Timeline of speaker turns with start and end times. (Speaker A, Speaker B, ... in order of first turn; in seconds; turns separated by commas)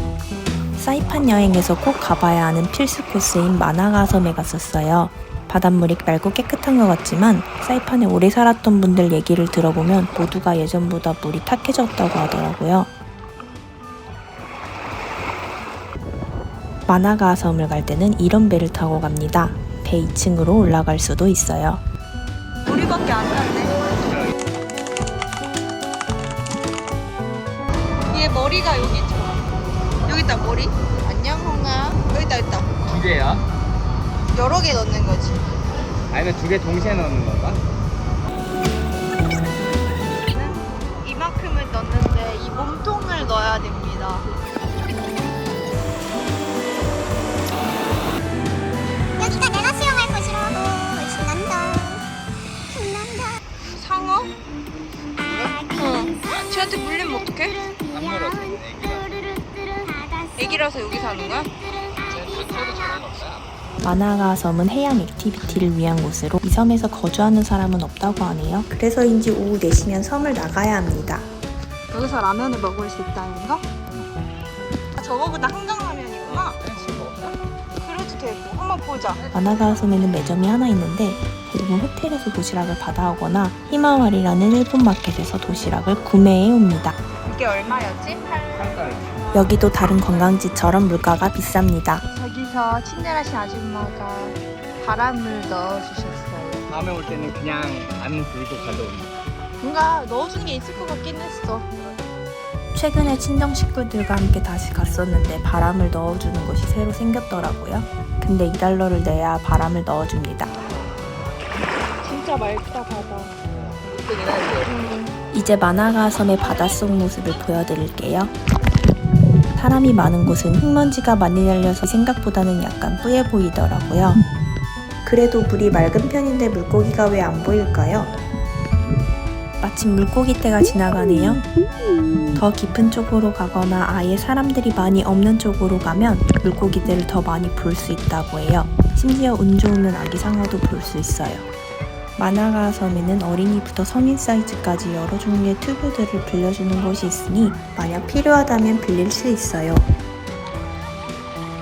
Speaker A: 0.8-12.9, Speaker A: 16.9-21.8, Speaker B: 22.6-23.8, Speaker C: 23.9-24.3, Speaker B: 28.1-29.5, Speaker B: 30.0-32.7, Speaker C: 32.8-33.4, Speaker B: 34.3-35.4, Speaker C: 36.1-37.6, Speaker B: 40.2-44.3, Speaker D: 49.2-52.0, Speaker D: 52.7-53.3, Speaker B: 53.6-54.3, Speaker B: 55.2-57.6, Speaker C: 57.8-59.2, Speaker B: 60.3-61.5, Speaker C: 62.0-63.5, Speaker A: 63.8-71.3, Speaker B: 71.9-73.7, Speaker B: 74.9-76.6, Speaker C: 76.2-77.4, Speaker B: 77.8-79.2, Speaker C: 79.2-79.7, Speaker A: 79.3-87.0, Speaker B: 87.2-88.8, Speaker C: 88.5-89.3, Speaker A: 89.3-92.0, Speaker B: 92.1-96.7, Speaker C: 96.7-99.1, Speaker B: 99.6-101.7, Speaker A: 102.7-110.5, Speaker B: 112.0-113.3, Speaker C: 114.1-114.5, Speaker B: 114.4-115.1, Speaker A: 115.3-118.3, Speaker A: 119.5-124.2, Speaker A: 125.0-128.1, Speaker A: 129.6-131.4, Speaker A: 132.3-141.5, Speaker A: 142.2-149.9